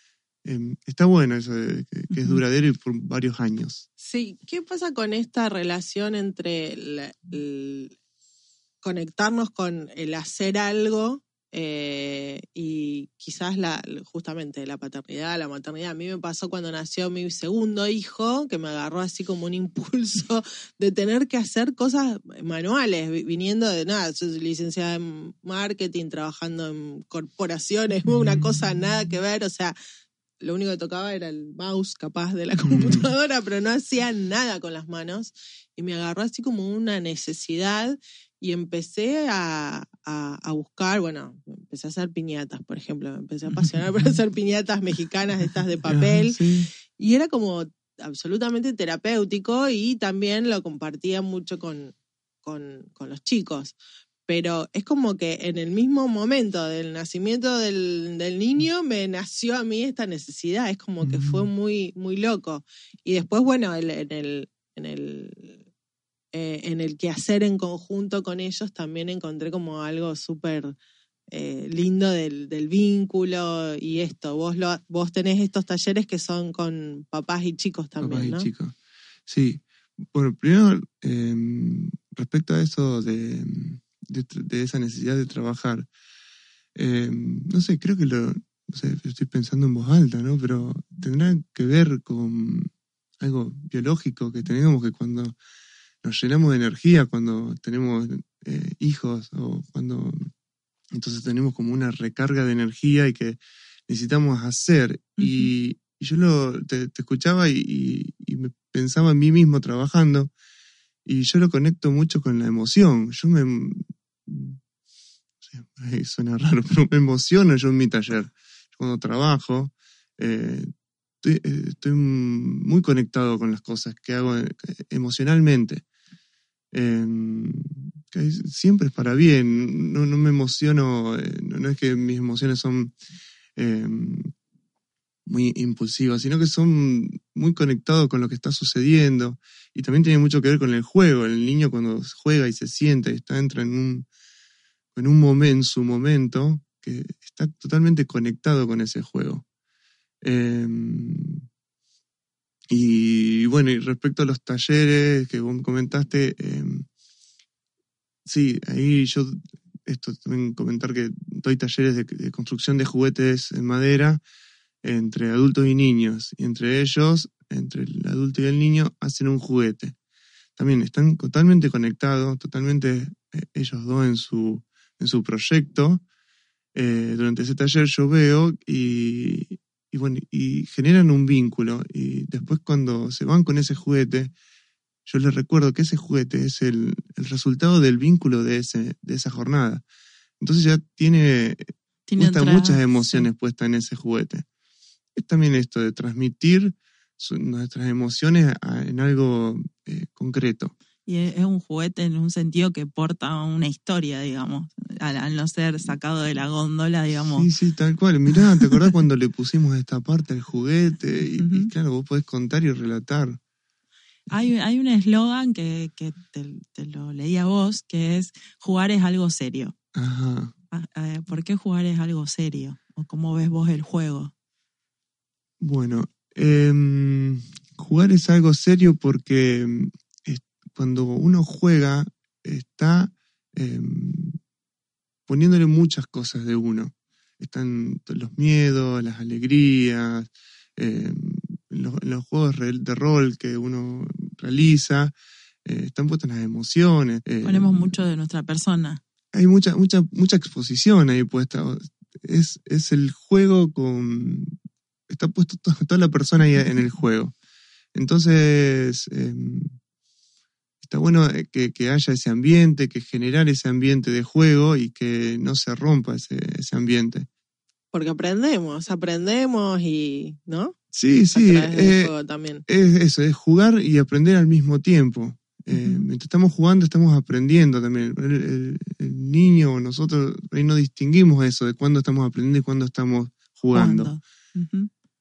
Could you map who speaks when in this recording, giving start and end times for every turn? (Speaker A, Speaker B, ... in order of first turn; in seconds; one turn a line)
Speaker A: 0.4-3.9
Speaker B: 2.1-2.4
Speaker C: 4.0-8.0
Speaker C: 8.8-29.8
Speaker C: 30.4-46.4
Speaker A: 32.6-33.0
Speaker A: 45.9-46.7
Speaker C: 46.9-53.7
Speaker C: 54.3-65.6
Speaker A: 61.0-61.5
Speaker C: 66.3-70.8
Speaker C: 71.3-78.5
Speaker A: 78.0-78.8
Speaker A: 79.3-85.9
Speaker A: 86.8-95.3
Speaker A: 96.0-100.3
Speaker A: 100.9-110.3
Speaker B: 105.2-105.5
Speaker A: 111.0-114.6
Speaker A: 115.5-120.7
Speaker A: 121.2-125.8
Speaker A: 126.7-132.9
Speaker A: 133.6-134.3
Speaker A: 135.2-144.1
Speaker A: 144.9-149.4
Speaker A: 150.2-151.4
Speaker A: 152.7-156.9
Speaker A: 158.2-164.2
Speaker A: 164.8-169.9
Speaker A: 170.6-176.0
Speaker A: 176.7-184.3
Speaker A: 185.1-189.8
Speaker A: 190.4-194.4
Speaker B: 192.1-193.3
Speaker A: 195.1-200.7
Speaker B: 201.1-207.5
Speaker A: 207.3-213.4
Speaker B: 211.4-211.7
Speaker B: 214.3-219.7
Speaker A: 219.9-220.5
Speaker B: 220.7-224.3
Speaker A: 225.6-234.4
Speaker A: 235.3-248.0
Speaker B: 247.4-249.0
Speaker A: 249.3-254.5
Speaker A: 255.1-257.3
Speaker A: 257.9-259.8
Speaker A: 260.8-267.3
Speaker C: 267.9-270.8
Speaker A: 270.9-272.1
Speaker C: 271.3-272.6
Speaker A: 272.7-284.1
Speaker B: 275.7-276.1
Speaker B: 283.7-284.9